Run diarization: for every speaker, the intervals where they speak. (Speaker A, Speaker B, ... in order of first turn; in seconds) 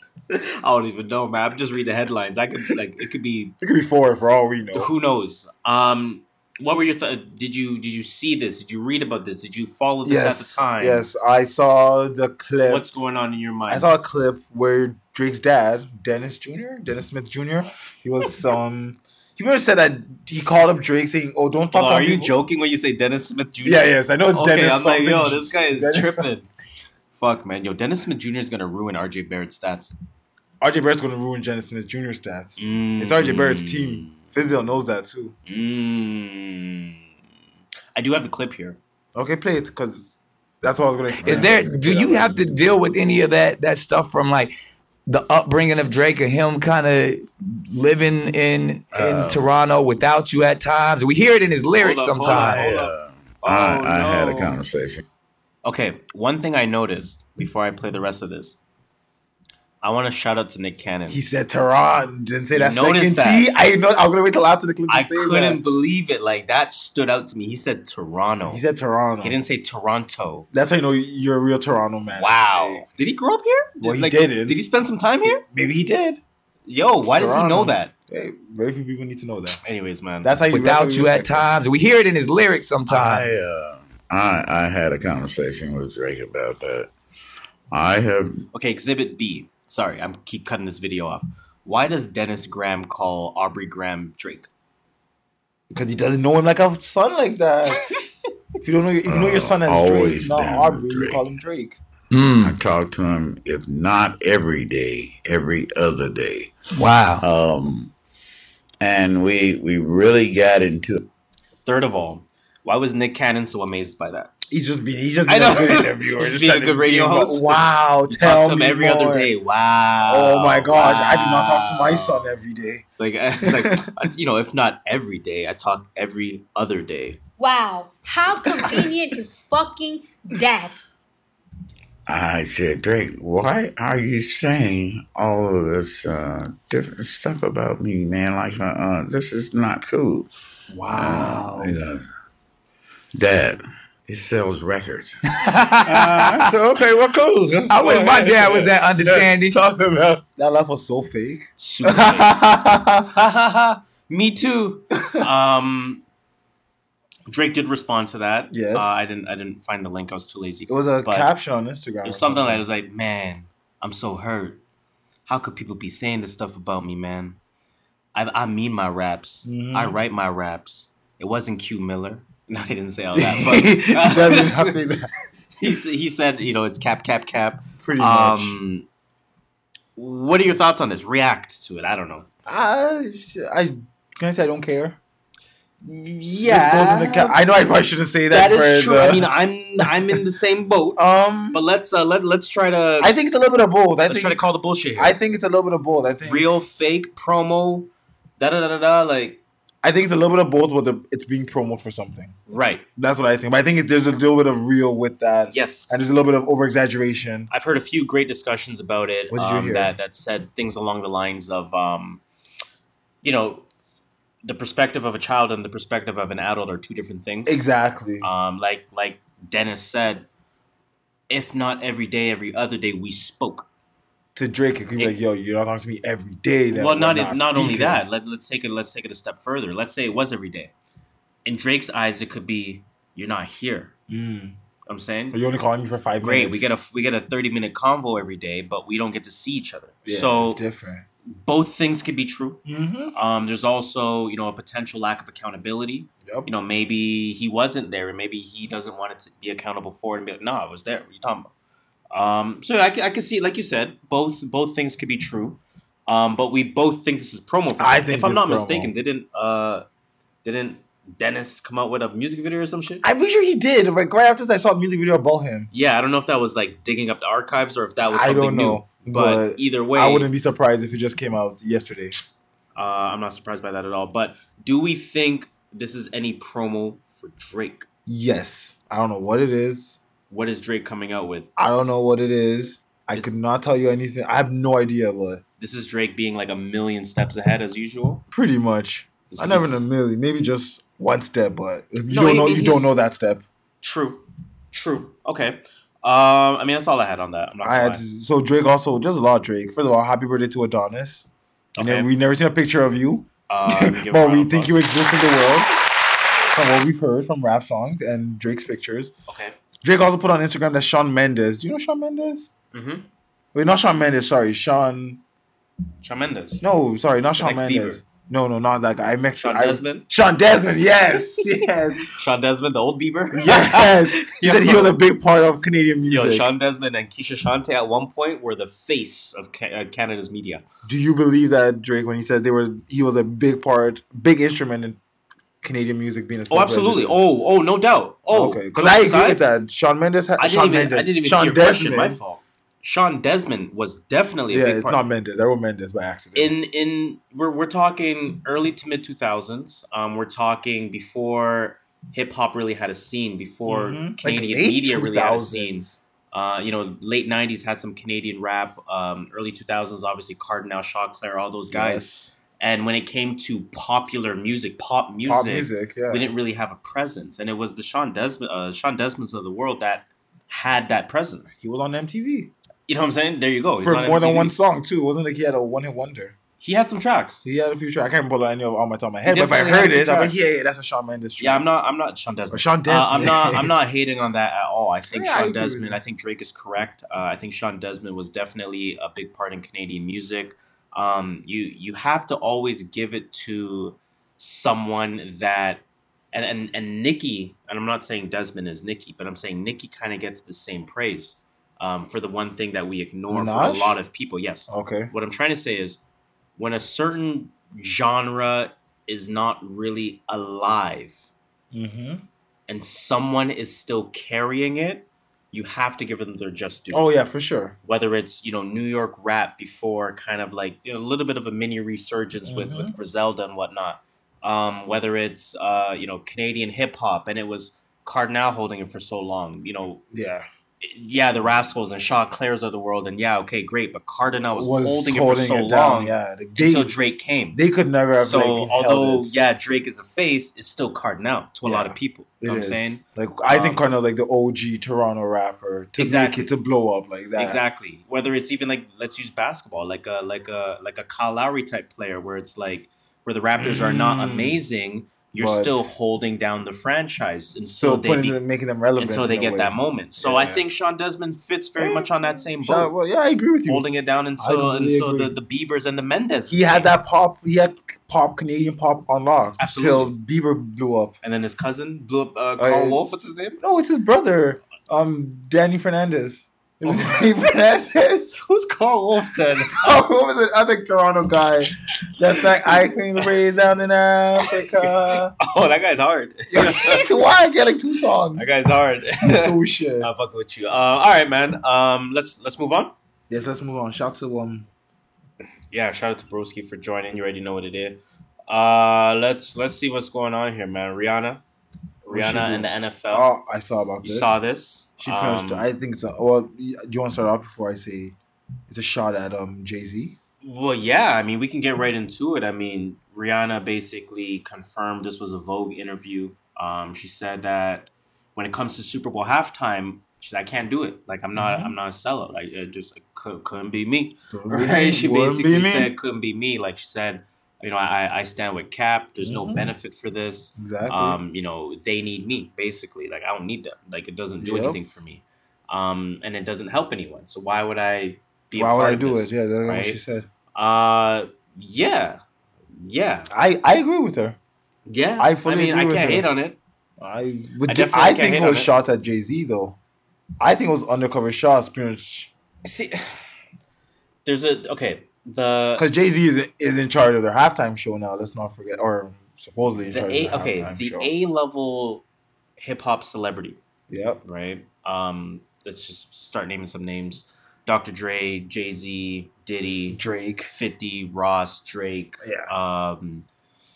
Speaker A: 0.3-3.5, 4.7-11.0, 12.7-13.9, 21.7-26.5, 27.1-29.9, 32.6-34.2, 35.5-37.0, 37.9-38.8, 51.8-54.6, 55.6-58.6, 59.8-61.2, 62.5-63.5, 64.9-68.6, 69.2-70.5, 72.1-75.4, 76.7-77.9, 79.6-80.4, 88.5-94.5, 111.6-114.3, 115.3-122.3, 122.9-127.2, 151.6-152.3, 153.1-156.0, 157.3-161.3, 162.0-164.6, 165.3-167.4, 168.1-174.8, 175.6-178.9, 179.9-182.3, 186.3-187.4, 188.3-193.1, 194.1-195.2, 196.2-199.4, 202.5-202.8, 205.5-205.9, 207.5-212.2, 213.2-213.7, 214.4-217.6, 218.2-220.3, 221.3-223.7, 226.7-230.7, 231.4-233.9, 234.9-235.4, 236.2-240.6, 241.3-251.5, 252.1-259.8, 260.4-263.0, 265.7-270.3, 272.7-277.9, 280.3-281.5, 285.6-288.2, 289.3-289.8, 292.1-292.9, 293.8-298.0, 301.8-302.1, 303.5-304.8, 309.3-309.6, 312.7-313.0, 316.0-316.6, 317.4-318.0, 319.4-320.0, 322.1-325.0, 326.1-330.6, 336.5-339.4, 340.4-345.0, 346.3-371.5, 372.9-374.6, 376.6-377.4, 379.2-380.4, 381.4-406.0, 406.6-411.3, 412.7-417.1, 417.8-430.0, 430.8-437.6, 438.1-443.8, 446.0-446.5, 447.3-458.4, 459.0-462.9, 463.6-466.9, 469.6-470.1, 471.2-473.6, 476.9-477.2, 478.3-480.0, 484.4-487.0, 488.3-492.9, 495.7-501.4, 502.1-503.3, 504.0-505.7, 510.4-540.0, 540.5-542.2, 542.7-543.3, 544.9-546.6, 547.6-548.7, 552.6-553.2, 554.2-555.9, 559.9-562.0, 562.6-563.6, 564.2-573.2
Speaker B: 3.6-4.9, 10.0-12.8, 13.7-22.4, 23.6-26.3, 30.6-35.3, 39.1-42.5, 61.1-65.6, 68.5-69.4, 70.5-72.8, 73.8-74.7, 75.2-76.2, 77.1-79.6, 80.2-81.5, 95.7-98.0, 98.6-101.8, 114.5-119.3, 120.0-122.8, 123.4-123.9, 140.7-141.7, 150.4-153.1, 158.5-159.1, 160.7-162.6, 169.4-170.0, 173.1-175.1, 177.8-178.6, 182.4-185.0, 185.8-189.3, 189.8-190.2, 190.9-191.6, 193.0-194.4, 194.9-196.5, 199.8-202.4, 202.9-207.5, 209.3-209.9, 217.4-218.3, 224.3-228.0, 234.1-234.6, 235.3-236.7, 240.0-241.1, 242.6-243.1, 257.8-258.9, 263.0-265.7, 268.1-272.2, 278.1-280.0, 281.6-285.4, 288.3-293.4, 297.6-305.7, 306.5-309.1, 309.8-312.5, 313.5-315.2, 316.6-322.1, 323.3-326.5, 330.8-335.0, 335.6-337.2, 338.3-342.2, 344.5-346.6, 353.7-356.0, 361.7-362.3, 365.2-366.2, 371.5-372.5, 373.8-376.4, 377.4-381.7, 382.5-383.7, 385.1-386.0, 403.3-404.0, 404.7-405.1, 411.7-412.2, 416.9-417.8, 422.4-422.9, 430.1-430.5, 434.5-436.9, 437.5-439.4, 441.6-447.6, 453.6-454.6, 455.3-455.9, 457.6-460.6, 461.8-463.9, 464.4-465.3, 466.5-471.1, 472.6-473.0, 473.6-478.4, 479.7-485.4, 486.5-488.5, 489.2-490.1, 493.3-494.7, 502.0-504.4, 505.0-508.1, 508.7-510.2, 521.3-521.7, 524.3-525.9, 529.2-529.7, 530.6-531.2, 534.4-534.8, 538.5-540.3, 543.3-544.4, 545.2-546.3, 547.0-549.8, 550.4-552.3, 555.8-561.1, 563.9-564.2, 569.9-570.5, 572.2-572.5
Speaker C: 41.2-44.5, 45.0-52.9, 80.5-83.3, 102.1-102.6, 106.7-107.2, 145.5-146.5, 147.7-149.9
Speaker D: 41.2-41.6, 48.9-49.5, 52.2-55.0, 82.9-86.9, 87.7-88.4, 99.0-101.2, 102.3-106.5, 107.2-107.9, 108.8-111.0, 132.1-140.3, 140.9-142.0, 143.1-145.2, 145.8-148.7
Speaker E: 127.4-130.9